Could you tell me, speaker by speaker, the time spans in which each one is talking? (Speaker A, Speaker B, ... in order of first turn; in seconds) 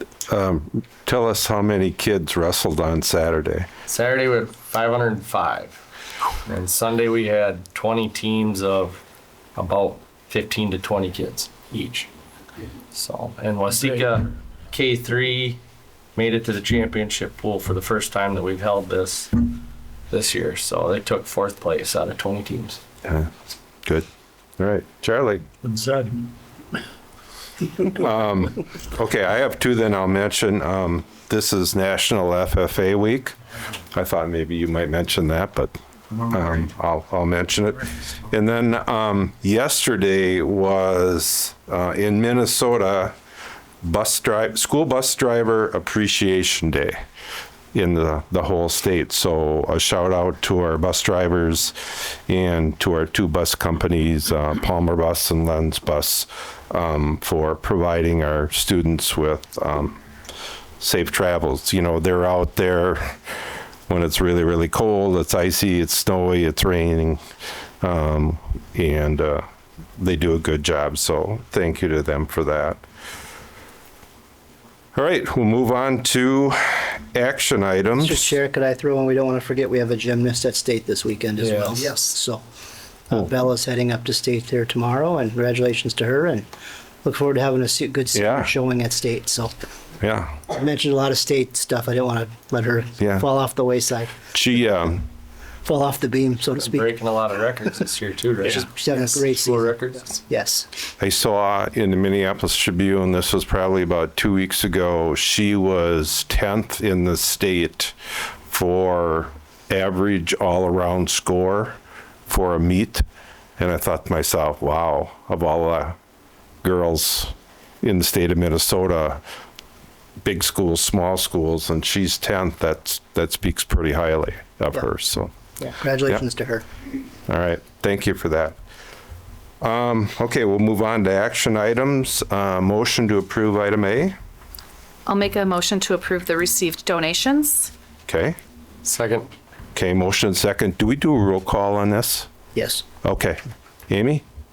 Speaker A: 0.3-3.7, 23.1-23.3, 24.6-25.5, 27.7-33.4, 33.9-43.1, 43.8-47.0, 47.7-60.0, 60.8-63.2, 63.9-67.2, 67.8-69.4, 70.0-72.8, 74.9-78.3, 88.1-88.5, 90.0-90.4, 93.0-93.3, 94.3-95.0, 101.0-108.0, 108.5-111.8, 112.3-113.0, 113.6-116.0, 116.6-119.2, 120.2-125.3, 127.3-128.6, 129.6-134.2, 138.1-138.4, 139.8-142.3, 143.0-144.2
Speaker B: 3.9-5.8, 6.5-9.0, 9.6-12.1, 12.9-15.6, 16.1-19.5, 20.1-22.8, 81.4-81.8, 96.6-100.2, 138.8-139.3
Speaker C: 78.0-82.4, 83.1-86.5, 87.0-89.5, 90.5-94.1, 95.6-96.9, 98.4-100.7, 125.6-126.7, 142.6-142.8
Speaker D: 135.1-137.7